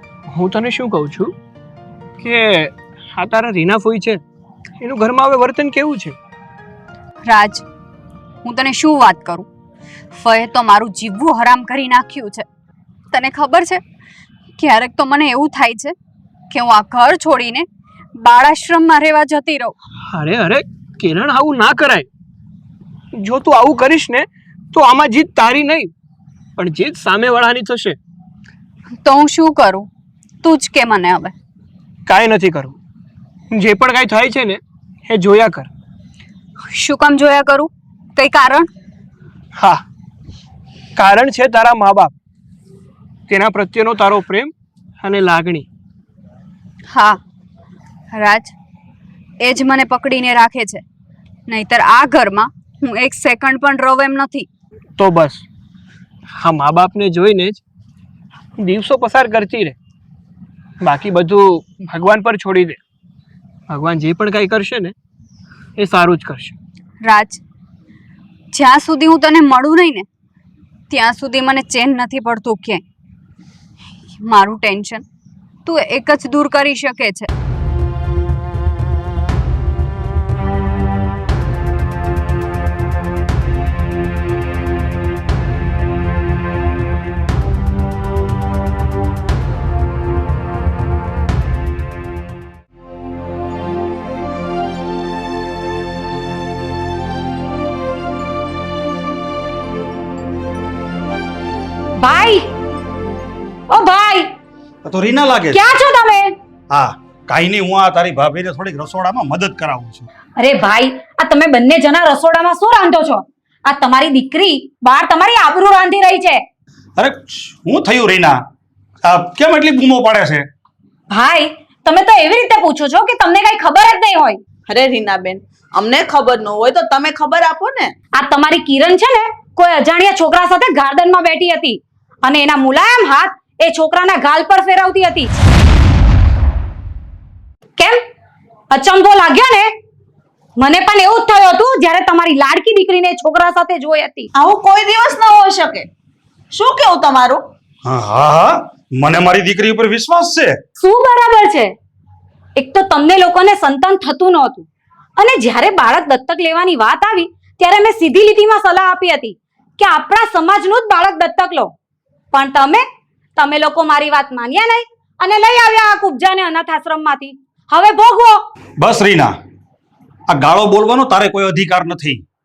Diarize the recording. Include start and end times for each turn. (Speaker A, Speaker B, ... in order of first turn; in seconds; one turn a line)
Speaker A: 0.3-1.3
Speaker A: 2.2-4.2
Speaker A: 4.8-6.2
Speaker B: 7.2-7.7
Speaker B: 8.4-9.5
Speaker B: 10.1-12.4
Speaker B: 13.1-13.8
Speaker B: 14.6-15.9
Speaker B: 16.5-19.8
Speaker A: 20.1-22.1
Speaker A: 23.1-25.9
Speaker A: 26.6-28.0
Speaker B: 29.0-29.9
Speaker B: 30.4-31.3
Speaker A: 32.0-32.8
Speaker A: 33.5-35.7
Speaker B: 36.6-38.7
Speaker A: 39.5-39.8
Speaker A: 41.0-42.1
Speaker A: 43.3-45.7
Speaker B: 46.9-47.2
Speaker B: 48.1-48.5
Speaker B: 49.4-50.8
Speaker B: 51.5-54.5
Speaker A: 55.0-55.4
Speaker A: 56.4-57.6
Speaker A: 58.6-59.8
Speaker A: 60.8-62.8
Speaker A: 63.7-64.9
Speaker A: 65.8-66.5
Speaker B: 67.0-67.4
Speaker B: 68.5-70.1
Speaker B: 70.9-72.8
Speaker B: 74.2-75.0
Speaker B: 75.6-77.3
Speaker C: 102.0-102.5
Speaker C: 103.7-104.3
Speaker D: 104.8-105.6
Speaker C: 105.5-106.3
Speaker D: 106.7-110.0
Speaker C: 110.4-116.4
Speaker D: 117.0-118.4
Speaker D: 119.0-120.5
Speaker C: 121.1-124.4
Speaker E: 124.7-127.9
Speaker C: 128.2-135.3
Speaker C: 138.7-139.7
Speaker C: 140.6-144.3
Speaker E: 144.3-145.9
Speaker E: 146.5-147.4
Speaker D: 147.8-150.6
Speaker C: 150.8-151.7
Speaker C: 152.6-161.7
Speaker C: 162.3-162.8
Speaker C: 163.3-168.4
Speaker D: 168.8-169.3
Speaker D: 170.3-172.2